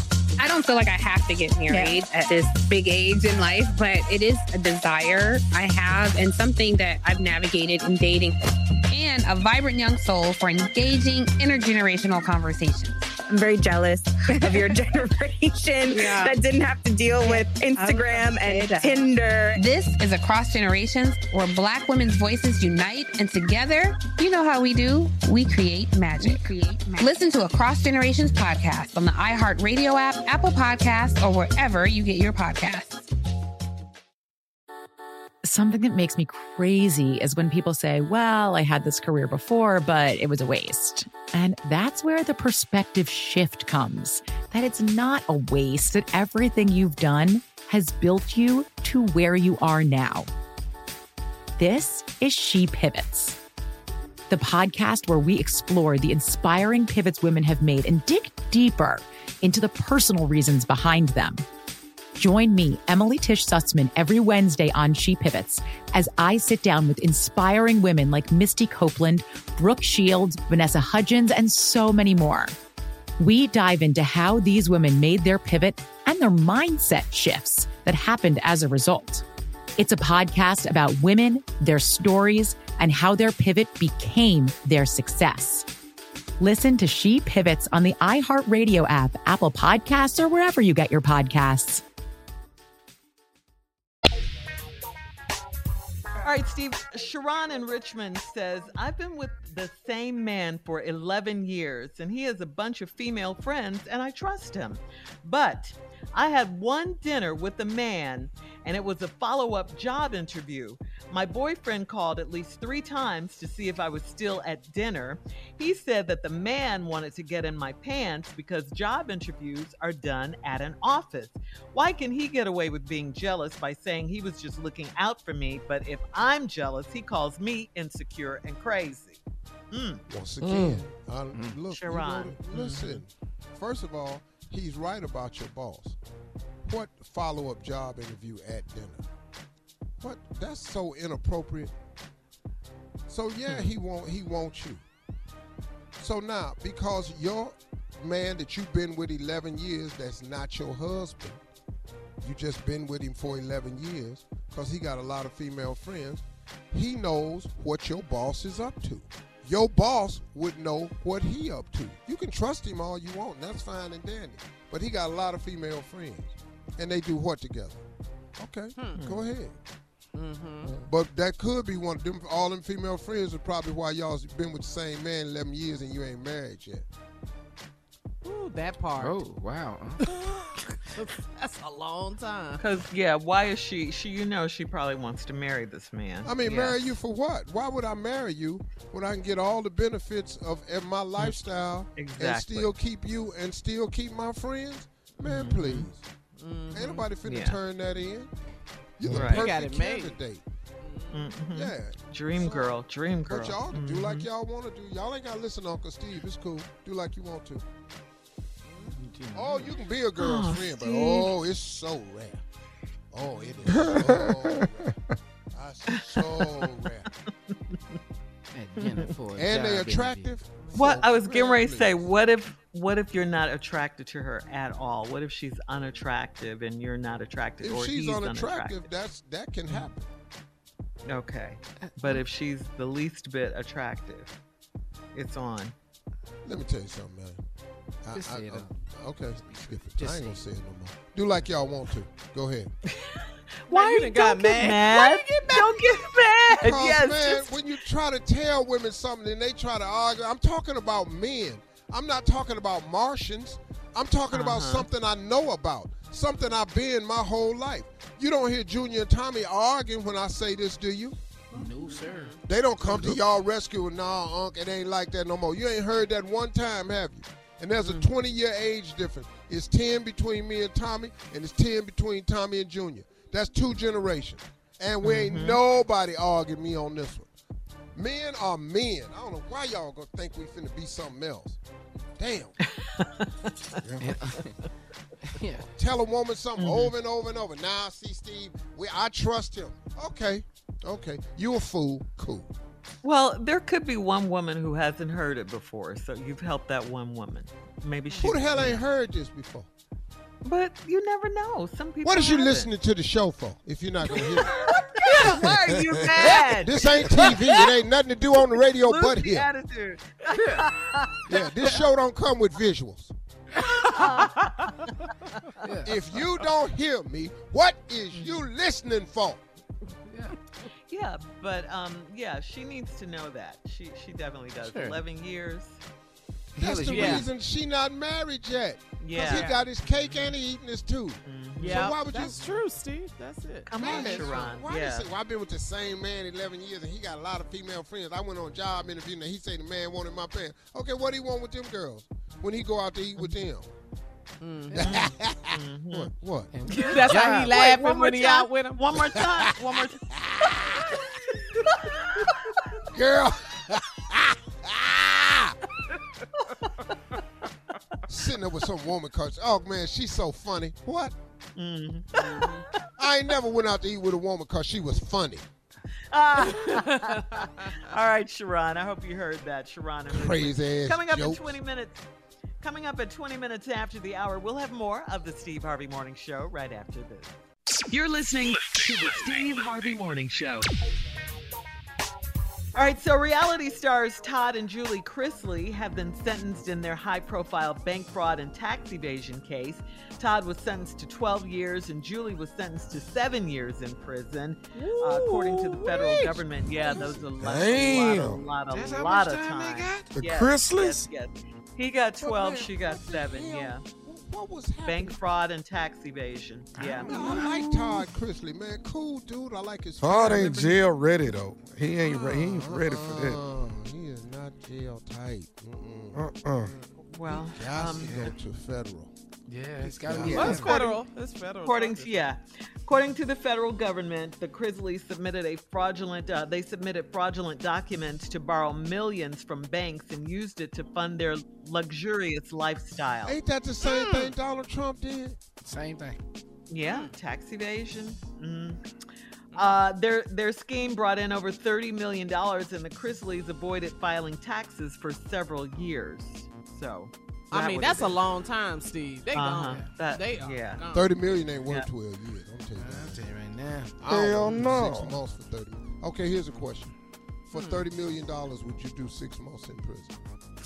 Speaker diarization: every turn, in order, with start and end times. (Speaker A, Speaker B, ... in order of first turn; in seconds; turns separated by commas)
Speaker A: 0.4-8.4, Speaker B: 1.7-1.9, Speaker A: 8.9-13.1, Speaker B: 13.3-19.6, Speaker A: 15.9-16.3, Speaker A: 17.2-18.9, Speaker A: 19.6-33.1, Speaker C: 35.4-50.3, Speaker C: 51.6-53.4, Speaker C: 54.3-61.4, Speaker C: 62.2-72.5, Speaker C: 73.2-79.2, Speaker C: 79.8-85.7, Speaker C: 86.4-91.8, Speaker D: 96.2-129.2, Speaker D: 129.7-130.0, Speaker E: 130.1-136.0, Speaker F: 130.4-130.8, Speaker D: 131.7-133.0, Speaker E: 136.7-139.1, Speaker E: 140.0-141.7, Speaker E: 143.1-144.8, Speaker E: 146.0-151.4, Speaker E: 152.2-167.8, Speaker E: 168.4-169.6, Speaker G: 168.8-169.1, Speaker G: 170.2-170.8, Speaker E: 170.8-176.9, Speaker G: 178.2-179.2, Speaker H: 179.0-180.0, Speaker G: 180.1-182.7, Speaker D: 182.6-186.8, Speaker E: 186.2-196.1, Speaker D: 191.9-192.7, Speaker D: 195.2-195.9, Speaker G: 196.4-197.1, Speaker E: 196.7-198.3, Speaker D: 197.2-197.6, Speaker E: 199.0-200.4, Speaker H: 199.1-199.3, Speaker D: 199.1-199.5, Speaker G: 199.2-200.2, Speaker G: 200.8-201.3, Speaker D: 201.1-204.3, Speaker E: 201.5-202.7, Speaker E: 203.3-207.7, Speaker G: 208.7-209.7, Speaker E: 209.3-212.4, Speaker D: 210.2-211.3, Speaker E: 213.1-215.0, Speaker F: 213.8-214.1, Speaker E: 215.5-217.1, Speaker D: 215.9-217.8, Speaker H: 218.5-220.3, Speaker D: 218.8-219.1, Speaker E: 219.3-222.1, Speaker D: 220.7-228.9, Speaker E: 227.6-230.1, Speaker D: 231.1-234.3, Speaker H: 231.9-232.2, Speaker D: 235.1-235.8, Speaker E: 236.4-237.4, Speaker E: 238.0-242.7, Speaker H: 238.1-238.8, Speaker H: 239.4-240.4, Speaker D: 242.9-247.6, Speaker G: 243.7-246.1, Speaker E: 246.6-261.2, Speaker D: 254.3-254.9, Speaker H: 261.5-262.4, Speaker G: 261.6-262.4, Speaker E: 262.4-277.3, Speaker F: 262.9-263.2, Speaker G: 267.8-268.1, Speaker D: 275.0-275.6, Speaker E: 277.9-281.6, Speaker E: 282.2-282.6, Speaker D: 282.8-283.7, Speaker F: 283.8-284.1, Speaker H: 284.0-284.6, Speaker H: 285.2-285.7, Speaker E: 285.8-292.5, Speaker D: 286.6-286.9, Speaker D: 293.0-298.8, Speaker E: 298.2-299.7, Speaker D: 300.4-302.7, Speaker E: 302.0-304.6, Speaker D: 304.1-307.7, Speaker E: 306.5-309.5, Speaker D: 308.5-311.4, Speaker H: 310.3-310.7, Speaker E: 311.3-313.1, Speaker H: 313.6-314.0, Speaker D: 313.8-315.1, Speaker H: 315.6-315.9, Speaker E: 315.8-319.4, Speaker D: 318.1-318.5, Speaker H: 320.1-320.4, Speaker D: 320.9-325.8, Speaker H: 324.6-325.0, Speaker E: 326.6-332.5, Speaker H: 326.6-327.2, Speaker G: 326.9-327.2, Speaker D: 329.0-329.6, Speaker D: 331.2-331.9, Speaker G: 331.6-334.5, Speaker D: 333.7-335.1, Speaker E: 333.8-343.7, Speaker G: 344.4-345.0, Speaker D: 344.7-346.1, Speaker E: 344.7-346.5, Speaker H: 346.5-347.6, Speaker D: 346.7-350.1, Speaker G: 346.8-348.8, Speaker E: 349.2-349.5, Speaker E: 350.1-351.0, Speaker D: 351.7-352.6, Speaker E: 352.9-355.6, Speaker E: 358.1-361.2, Speaker D: 361.6-362.8, Speaker G: 362.2-362.6, Speaker E: 363.0-365.4, Speaker D: 366.1-372.1, Speaker G: 366.6-367.8, Speaker E: 370.1-371.6, Speaker D: 372.6-377.4, Speaker I: 377.9-380.7, Speaker D: 382.8-403.8, Speaker H: 395.5-397.0, Speaker F: 397.4-398.4, Speaker H: 398.7-400.1, Speaker F: 400.2-401.1, Speaker E: 402.2-405.2, Speaker D: 404.9-408.0, Speaker H: 406.8-407.5, Speaker E: 407.1-410.9, Speaker F: 410.0-413.4, Speaker E: 412.2-416.2, Speaker F: 416.1-416.7, Speaker D: 417.1-418.3, Speaker E: 417.3-419.1, Speaker H: 419.5-420.9, Speaker E: 419.8-420.7, Speaker G: 420.3-422.2, Speaker D: 420.5-421.0, Speaker D: 421.6-433.4, Speaker E: 433.2-435.4, Speaker G: 433.8-434.3, Speaker H: 435.6-436.2, Speaker D: 436.7-438.9, Speaker G: 436.9-437.1, Speaker D: 439.5-448.2, Speaker G: 447.5-451.1, Speaker D: 449.3-450.8, Speaker E: 450.9-453.2, Speaker H: 452.8-453.9, Speaker E: 454.0-456.9, Speaker F: 454.1-455.2, Speaker E: 457.5-460.1, Speaker G: 457.5-457.9